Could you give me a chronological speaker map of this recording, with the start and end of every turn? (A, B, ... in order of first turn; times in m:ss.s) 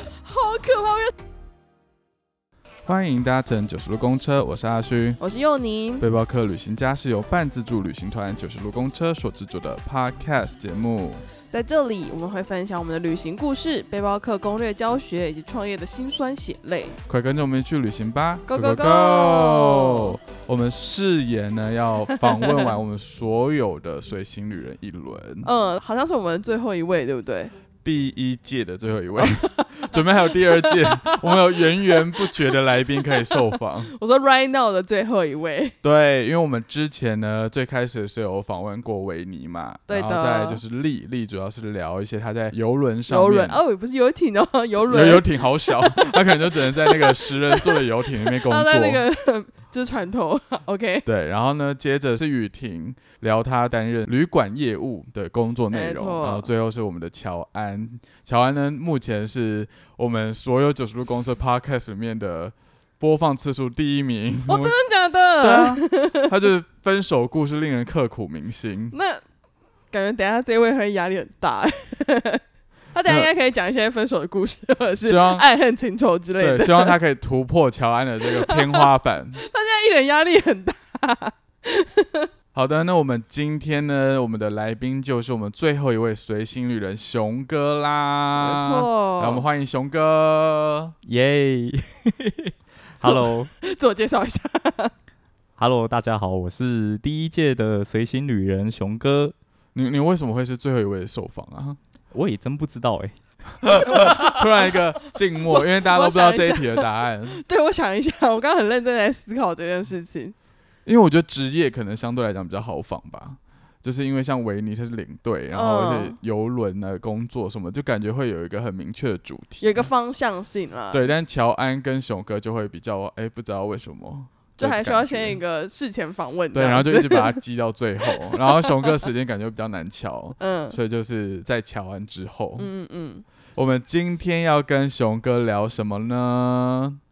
0:00.1-0:01.1 A
0:02.9-0:05.2 B
0:05.2-0:06.0 A
0:06.0-0:11.2 B
0:11.5-0:17.0 A
0:17.1-0:25.5 B
0:18.5-0:20.2 A
0:22.2-0:22.7 A
0:25.4-0:27.5 A
0:27.8-0:33.9 B
0:29.2-0:35.8 A
0:35.8-0:43.6 B
0:39.9-0:40.6 A
0:43.1-0:51.1 A
0:44.8-0:49.0 B
0:51.0-1:04.8 B
0:55.7-0:56.5 A
1:04.5-1:06.3 A
1:05.4-1:08.9 B
1:08.9-1:09.2 A
1:09.9-1:12.4 A
1:12.9-1:17.0 A
1:15.0-1:15.5 B
1:16.4-1:19.4 B
1:18.4-1:22.3 A
1:22.5-1:30.9 B
1:28.4-1:29.4 A
1:31.1-1:33.5 C
1:33.0-1:34.9 A
1:35.6-1:39.3 C
1:39.8-1:41.8 B
1:42.1-1:43.7 C
1:43.6-1:47.4 B
1:43.8-1:44.8 A
1:45.5-1:50.3 A
1:50.8-1:59.8 B
1:55.5-1:56.2 A
1:59.6-2:01.1 A
2:00.9-2:05.4 B
2:04.6-2:07.4 A
2:06.5-2:12.7 B
2:08.1-2:08.9 A
2:10.4-2:10.8 A
2:12.6-2:13.2 A
2:13.6-2:17.0 B